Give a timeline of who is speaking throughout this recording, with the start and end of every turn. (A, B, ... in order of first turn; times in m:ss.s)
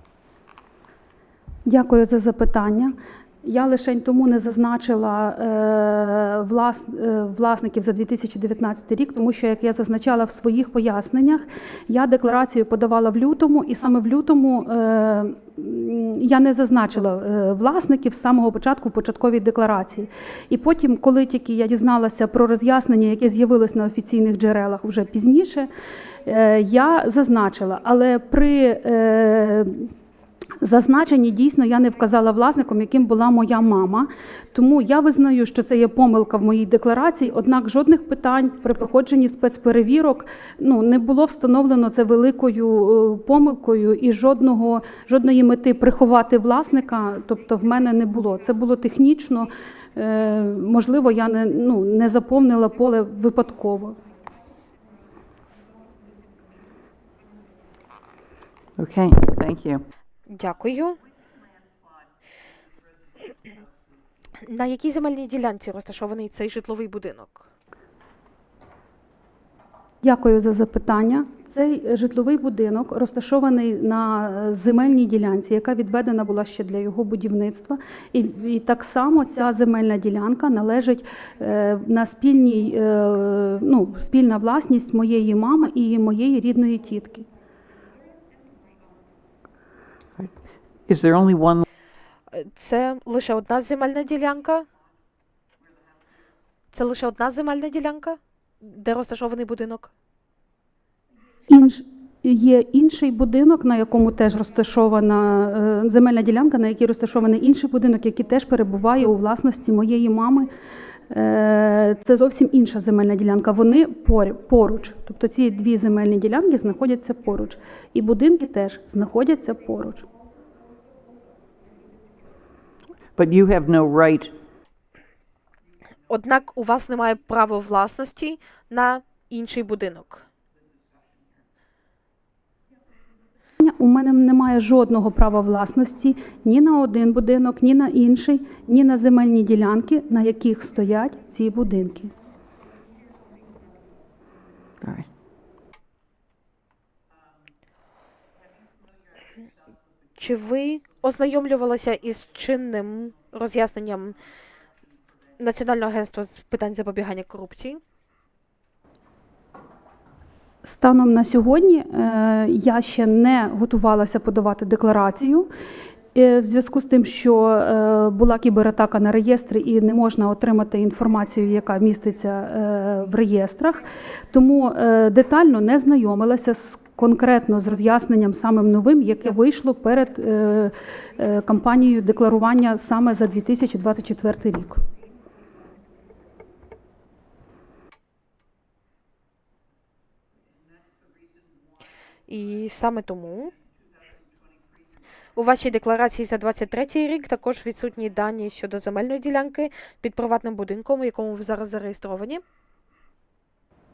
0:01.7-0:25.7 A
0:26.3-0:29.9 A
0:30.6-0:54.0 A
0:58.8-0:59.8 B
1:00.3-1:01.0 C
1:04.5-1:07.5 C
1:10.0-1:27.3 A
1:30.2-1:31.6 B
1:32.3-1:34.7 C
1:36.7-1:39.9 C
1:41.5-1:50.5 A
1:51.1-2:00.1 A
2:03.2-2:04.3 B
2:06.1-2:10.2 C
2:13.6-2:22.1 A
2:30.2-2:34.2 C
2:35.4-2:37.8 C
2:40.6-2:45.5 A
2:46.2-3:04.8 A
3:12.3-3:13.5 C
3:15.4-3:22.4 C